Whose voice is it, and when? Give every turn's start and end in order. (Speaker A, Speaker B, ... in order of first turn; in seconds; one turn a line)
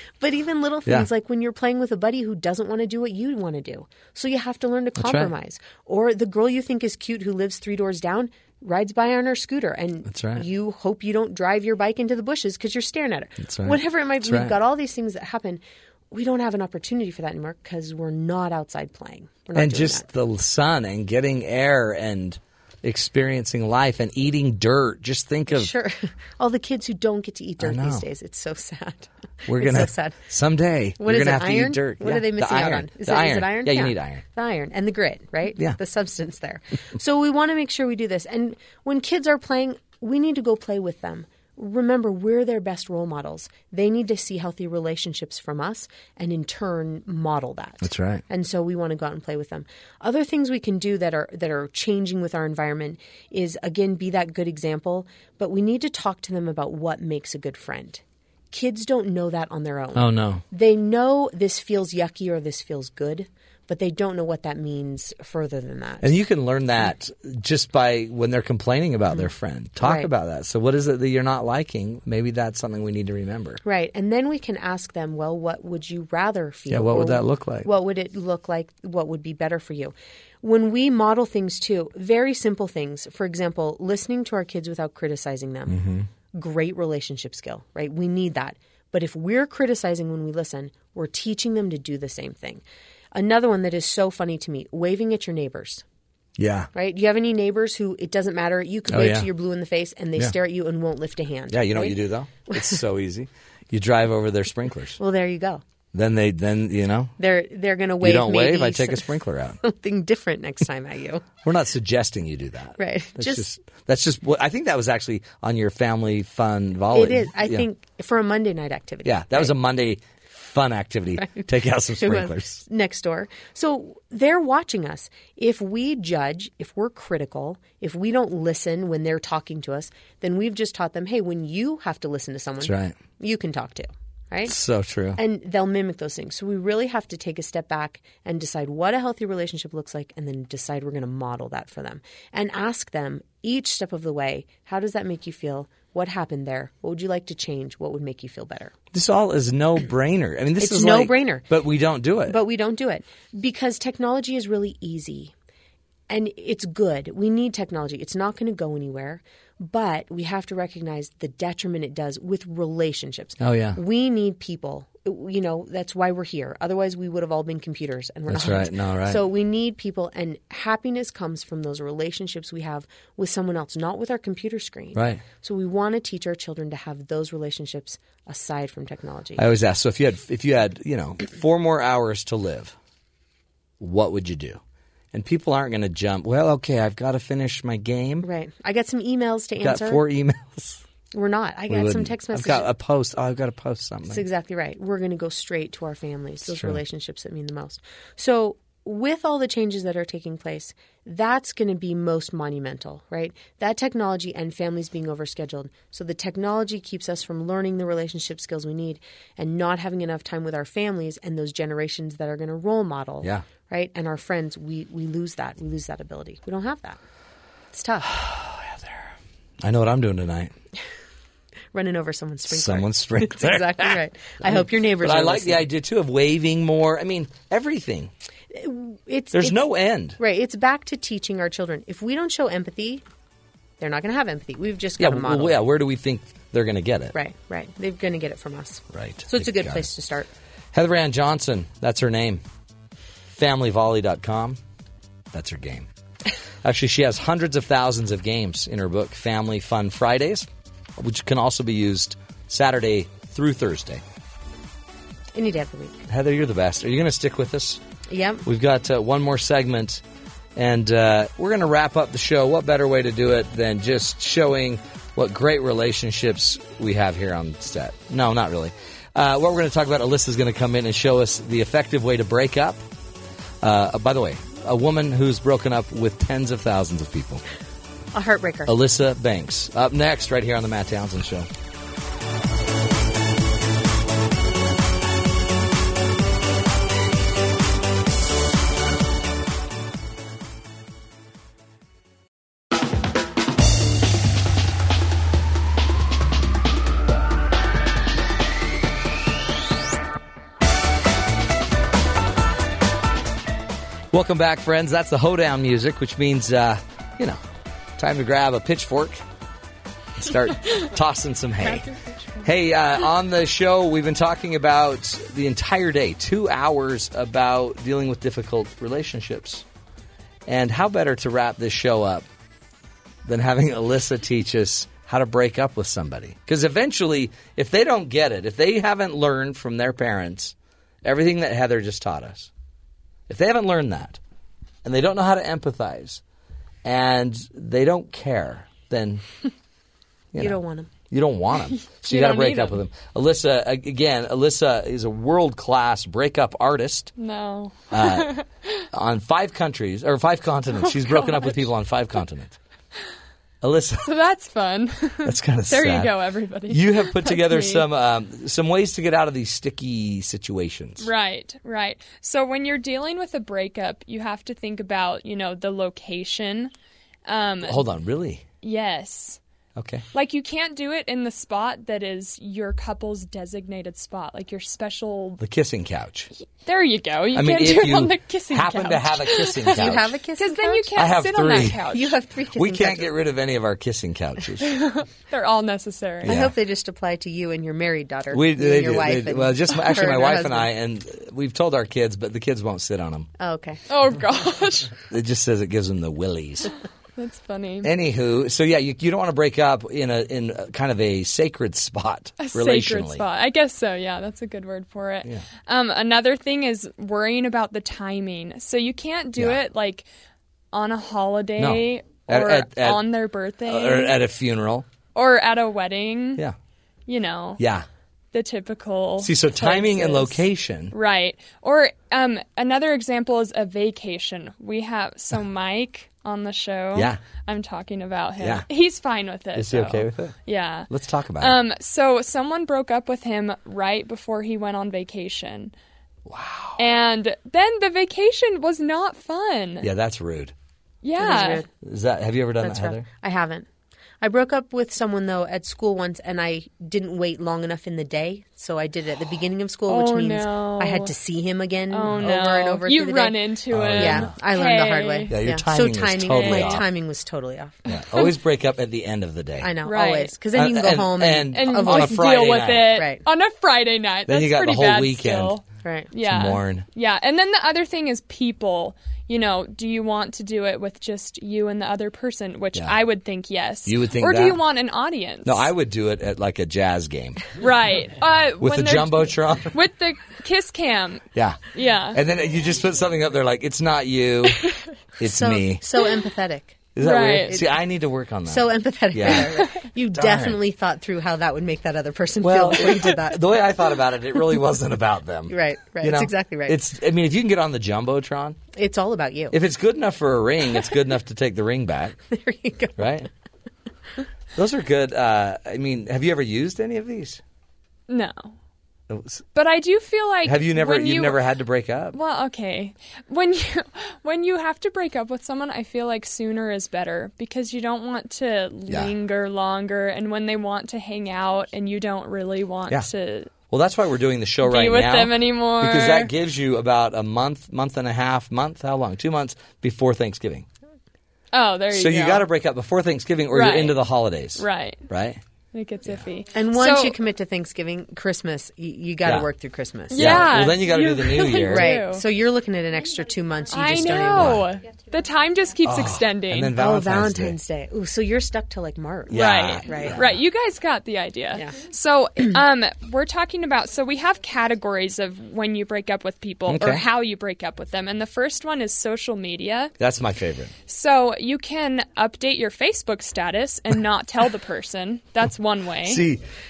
Speaker A: 0.2-20.1
Speaker B: 5.0-5.3
Speaker B: 10.1-10.4
Speaker B: 13.4-14.5
Speaker B: 19.5-25.7
Speaker A: 25.5-30.2
Speaker B: 27.6-28.0
Speaker B: 29.5-34.2
Speaker A: 31.0-66.1
Speaker B: 47.8-48.2
Speaker B: 59.9-60.4
Speaker B: 66.0-73.6
Speaker A: 69.8-70.1
Speaker A: 73.6-92.6
Speaker B: 76.7-77.7
Speaker B: 85.7-86.1
Speaker A: 93.1-95.8
Speaker B: 96.4-96.7
Speaker A: 96.7-102.0
Speaker B: 98.9-99.3
Speaker B: 101.5-105.0
Speaker A: 102.5-102.8
Speaker A: 105.0-105.6
Speaker B: 105.9-107.1
Speaker A: 107.2-109.1
Speaker B: 108.0-109.6
Speaker A: 109.6-111.3
Speaker B: 111.4-117.7
Speaker A: 112.8-113.4
Speaker A: 116.9-119.5
Speaker B: 119.0-122.6
Speaker A: 121.2-134.5
Speaker B: 132.6-133.0
Speaker B: 134.4-135.2
Speaker A: 135.2-148.7
Speaker B: 148.9-152.3
Speaker A: 150.6-151.4
Speaker A: 152.3-155.3
Speaker A: 156.1-179.4
Speaker B: 163.4-163.8
Speaker B: 168.3-169.2
Speaker B: 174.9-175.2
Speaker B: 179.4-182.8
Speaker B: 183.8-184.6
Speaker B: 185.1-188.3
Speaker A: 188.2-190.0
Speaker B: 189.6-190.8
Speaker A: 191.1-192.7
Speaker B: 191.7-194.2
Speaker A: 194.1-217.0
Speaker B: 196.5-196.8
Speaker A: 217.7-218.2
Speaker B: 218.1-219.0
Speaker B: 219.6-220.5
Speaker A: 221.7-225.6
Speaker B: 222.5-228.1
Speaker A: 228.5-229.6
Speaker B: 229.3-230.2
Speaker A: 230.2-233.0
Speaker A: 233.8-235.6
Speaker B: 235.0-237.1
Speaker A: 237.1-240.3
Speaker B: 238.9-239.9
Speaker B: 240.7-242.4
Speaker B: 243.3-244.6
Speaker B: 245.3-245.9
Speaker B: 246.6-254.0
Speaker A: 255.3-256.0
Speaker B: 256.1-257.8
Speaker A: 258.1-258.4
Speaker B: 258.4-260.0
Speaker B: 260.6-272.8
Speaker B: 273.6-277.4
Speaker A: 278.1-278.7
Speaker B: 278.7-281.5
Speaker B: 304.1-307.4
Speaker B: 308.0-309.2
Speaker B: 310.2-311.9
Speaker C: 311.6-312.5
Speaker B: 312.4-319.6
Speaker B: 320.4-322.3
Speaker B: 323.2-332.5
Speaker B: 333.3-334.2
Speaker B: 334.8-336.2
Speaker B: 336.8-339.2
Speaker A: 340.4-340.9
Speaker B: 341.1-347.1
Speaker C: 341.8-342.8
Speaker C: 347.2-348.8
Speaker B: 347.9-348.3
Speaker B: 348.9-352.6
Speaker C: 350.9-351.6
Speaker B: 353.6-354.1
Speaker C: 354.0-357.9
Speaker B: 355.2-356.1
Speaker B: 356.7-361.1
Speaker C: 361.0-366.7
Speaker C: 367.2-367.9
Speaker B: 367.6-368.4
Speaker C: 368.6-369.4
Speaker B: 369.8-370.0
Speaker C: 370.1-375.4
Speaker B: 375.4-376.3
Speaker C: 376.6-382.2
Speaker B: 377.3-380.1
Speaker A: 379.7-381.1
Speaker B: 380.9-381.8
Speaker A: 381.9-383.1
Speaker B: 382.5-384.7
Speaker C: 384.6-386.4
Speaker A: 386.2-390.7
Speaker B: 386.2-386.5
Speaker B: 388.3-393.3
Speaker A: 393.4-393.8
Speaker C: 393.9-395.0
Speaker B: 395.1-396.7
Speaker C: 397.2-397.9
Speaker B: 397.8-403.2
Speaker C: 402.4-410.1
Speaker C: 410.7-414.2
Speaker B: 411.6-413.0
Speaker B: 413.6-414.9
Speaker C: 415.1-416.4
Speaker C: 417.1-417.6
Speaker B: 417.6-417.9
Speaker C: 418.3-430.9
Speaker B: 419.2-420.9
Speaker B: 426.9-427.2
Speaker B: 428.4-428.6
Speaker B: 429.6-430.3
Speaker B: 430.9-431.6
Speaker C: 431.4-435.7
Speaker B: 436.2-436.8
Speaker C: 436.8-439.9
Speaker B: 439.8-440.5
Speaker C: 441.0-441.7
Speaker A: 441.2-441.7
Speaker B: 441.8-443.1
Speaker A: 442.6-443.7
Speaker A: 444.2-457.8
Speaker C: 449.9-451.1
Speaker C: 451.9-455.4
Speaker B: 453.7-454.3
Speaker B: 455.3-456.9
Speaker C: 456.3-456.8
Speaker B: 457.9-459.8
Speaker A: 459.6-462.3
Speaker C: 459.8-460.4
Speaker B: 460.5-463.0
Speaker C: 461.5-475.7
Speaker A: 462.9-463.2
Speaker B: 464.2-465.6
Speaker A: 465.7-466.1
Speaker B: 466.2-466.8
Speaker B: 473.9-474.6
Speaker B: 475.4-477.5
Speaker C: 477.6-482.2
Speaker B: 478.6-479.8
Speaker B: 481.3-484.6
Speaker C: 484.6-484.9
Speaker B: 485.2-485.9
Speaker A: 485.2-486.9
Speaker B: 486.9-490.6
Speaker C: 487.0-487.6
Speaker A: 488.5-493.5
Speaker B: 492.4-498.6
Speaker A: 495.5-496.8
Speaker A: 498.7-499.6
Speaker B: 499.5-502.2
Speaker A: 502.3-503.1
Speaker B: 503.0-503.3
Speaker B: 504.5-507.4
Speaker C: 508.1-508.5
Speaker B: 509.1-509.4
Speaker C: 509.5-511.4
Speaker B: 510.4-512.2
Speaker C: 512.1-523.5
Speaker B: 518.9-519.1
Speaker B: 523.7-530.7
Speaker C: 524.6-526.3
Speaker C: 531.5-532.5
Speaker B: 531.9-535.4
Speaker C: 533.5-534.0
Speaker C: 534.6-535.1
Speaker C: 535.7-537.2
Speaker A: 536.5-540.6
Speaker C: 540.1-542.3
Speaker B: 540.1-542.0
Speaker A: 541.6-544.7
Speaker C: 543.7-546.8
Speaker B: 544.0-544.6
Speaker B: 545.8-547.6
Speaker A: 546.7-550.2
Speaker B: 549.3-550.4
Speaker C: 549.3-559.9
Speaker B: 556.7-557.0
Speaker B: 560.0-560.7
Speaker C: 560.9-566.2
Speaker B: 566.0-566.4